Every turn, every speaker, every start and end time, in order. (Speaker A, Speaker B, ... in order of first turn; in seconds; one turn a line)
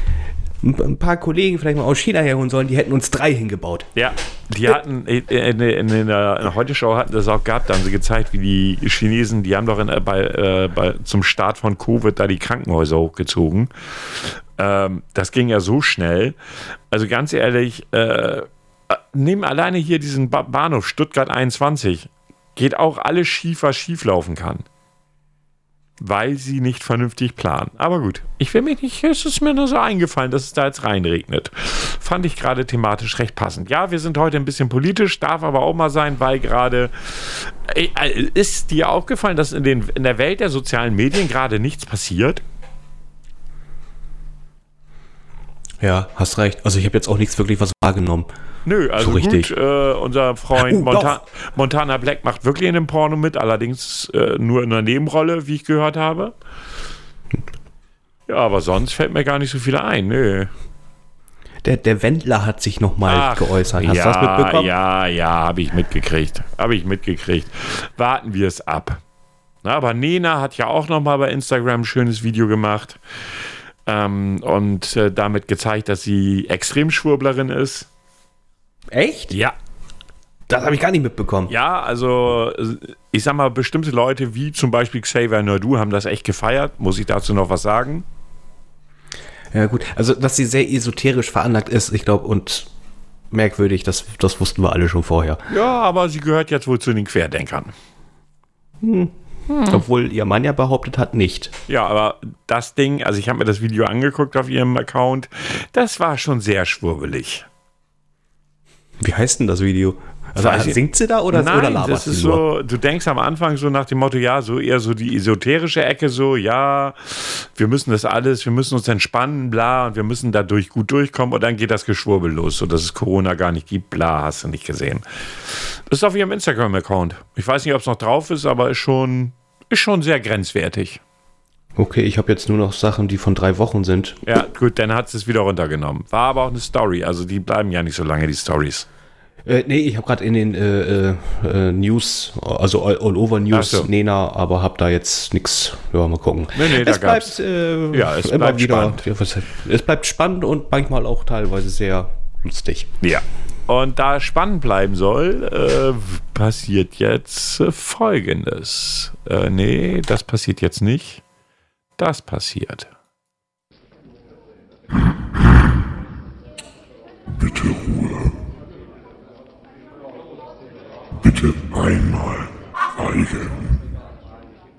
Speaker A: 0.6-3.9
Speaker B: 4.0-16.4
Speaker B: 16.9-24.6
Speaker B: 26.0-42.4
Speaker A: 45.8-48.3
Speaker B: 48.6-56.3
Speaker A: 49.0-49.5
Speaker A: 50.5-51.2
Speaker B: 58.3-60.5
Speaker A: 61.6-64.7
Speaker B: 63.1-69.0
Speaker B: 69.6-73.0
Speaker B: 73.9-77.9
Speaker A: 78.9-79.3
Speaker A: 80.5-81.5
Speaker B: 81.5-88.0
Speaker A: 89.5-92.7
Speaker A: 93.3-95.4
Speaker B: 95.5-97.7
Speaker A: 98.8-99.1
Speaker B: 99.5-99.8
Speaker A: 99.7-101.5
Speaker B: 101.7-107.5
Speaker A: 109.0-112.4
Speaker B: 110.4-131.0
Speaker A: 131.8-134.2
Speaker B: 134.3-138.9
Speaker A: 139.4-152.9
Speaker B: 143.5-143.9
Speaker B: 146.5-147.4
Speaker B: 147.9-149.1
Speaker B: 153.0-161.2
Speaker B: 162.0-162.9
Speaker C: 167.3-168.4
Speaker C: 171.2-173.8